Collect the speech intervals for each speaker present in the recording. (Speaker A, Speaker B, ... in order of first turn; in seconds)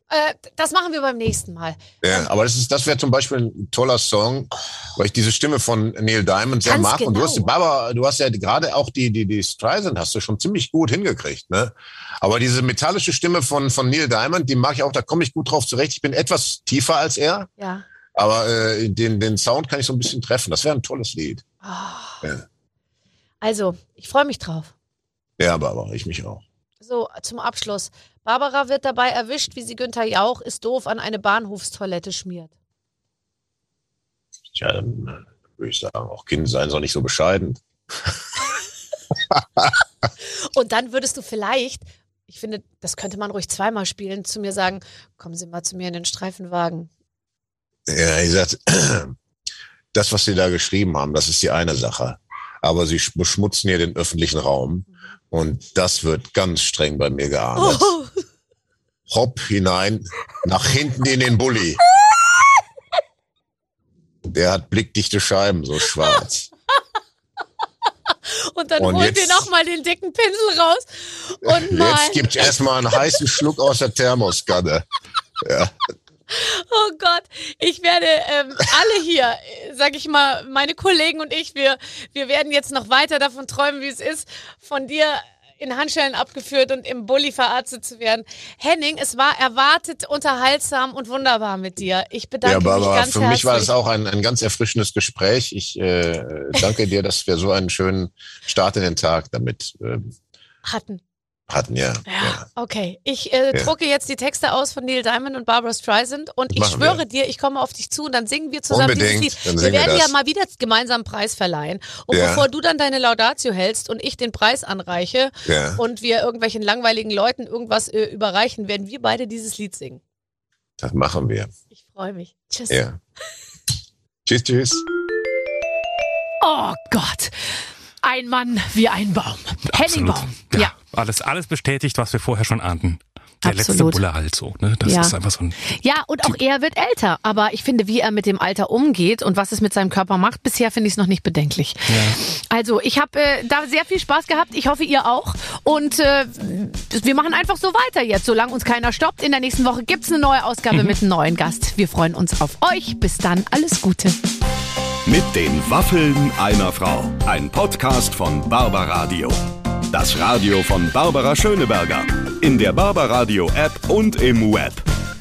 Speaker A: 0.1-2.3, 6.6-7.5, 17.6-17.8, 21.6-22.3, 23.4-24.7, 26.8-32.5, 40.2-46.9, 57.6-58.2, 62.0-62.4, 68.3-73.3, 76.3-93.7, 100.6-101.0, 102.1-120.0, 121.7-122.8, 126.4-130.7, 133.4-134.0, 134.8-135.1, 135.7-154.2
Speaker B: 2.0-17.5, 18.1-21.4, 25.4-26.4, 34.5-37.6, 39.3-39.6, 47.9-49.1, 49.9-57.9, 59.1-61.8, 64.3-66.5, 68.8-69.5, 71.4-74.8, 75.4-75.7, 92.4-100.1, 101.5-102.4, 106.5-107.0, 108.7-110.1, 112.1-112.4, 115.5-115.8, 120.8-121.5, 122.7-123.0, 124.2-124.8
Speaker C: 129.7-135.6, 141.9-142.2
Speaker D: 155.1-159.4, 159.9-164.8